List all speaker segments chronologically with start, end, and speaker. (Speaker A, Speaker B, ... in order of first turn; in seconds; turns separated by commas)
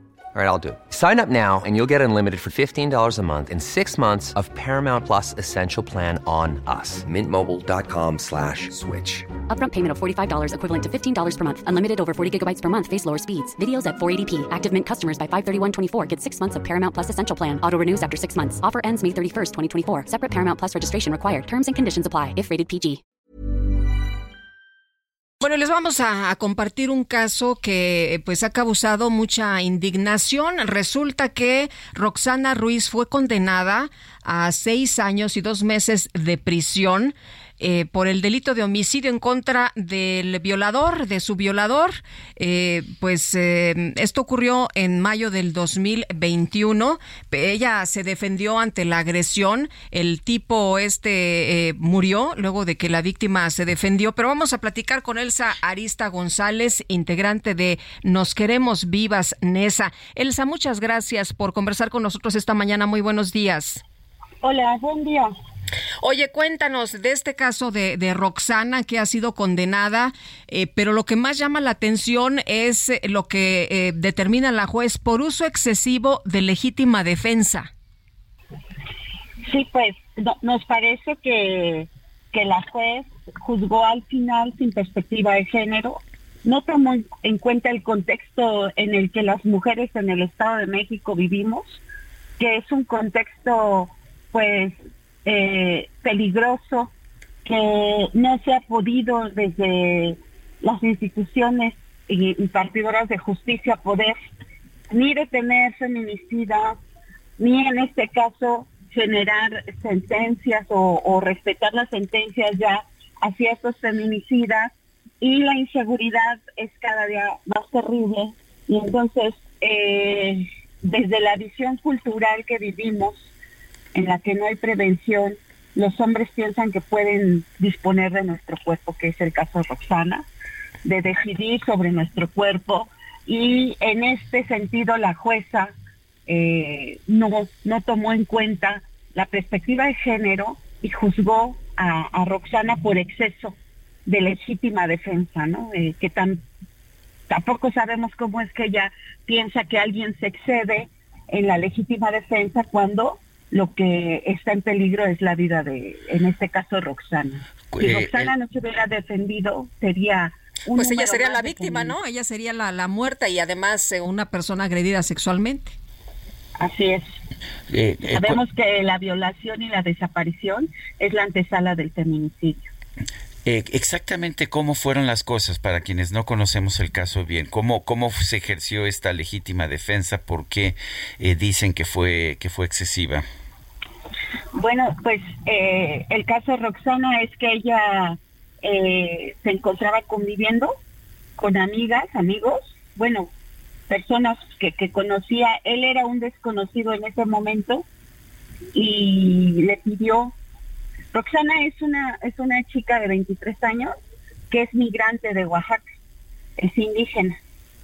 Speaker A: 0.3-7.3, Speaker B: 9.5-23.0, Speaker C: 25.4-63.8, Speaker D: 64.4-65.3, Speaker C: 66.0-77.7, Speaker D: 79.5-91.8, Speaker D: 92.4-96.9, Speaker D: 97.4-104.2, Speaker D: 104.9-106.8, Speaker D: 107.4-123.3, Speaker D: 123.9-130.3, Speaker D: 130.8-135.7, Speaker D: 136.3-146.4, Speaker D: 147.3-161.9, Speaker E: 157.7-158.3, Speaker C: 160.7-165.8, Speaker D: 166.6-167.0, Speaker E: 167.7-168.4, Speaker D: 168.2-172.7, Speaker E: 173.4-183.2, Speaker D: 184.5-190.7, Speaker D: 191.4-193.3, Speaker D: 193.9-197.8, Speaker D: 198.7-200.3, Speaker D: 201.1-203.9, Speaker D: 204.5-205.8, Speaker D: 206.6-207.3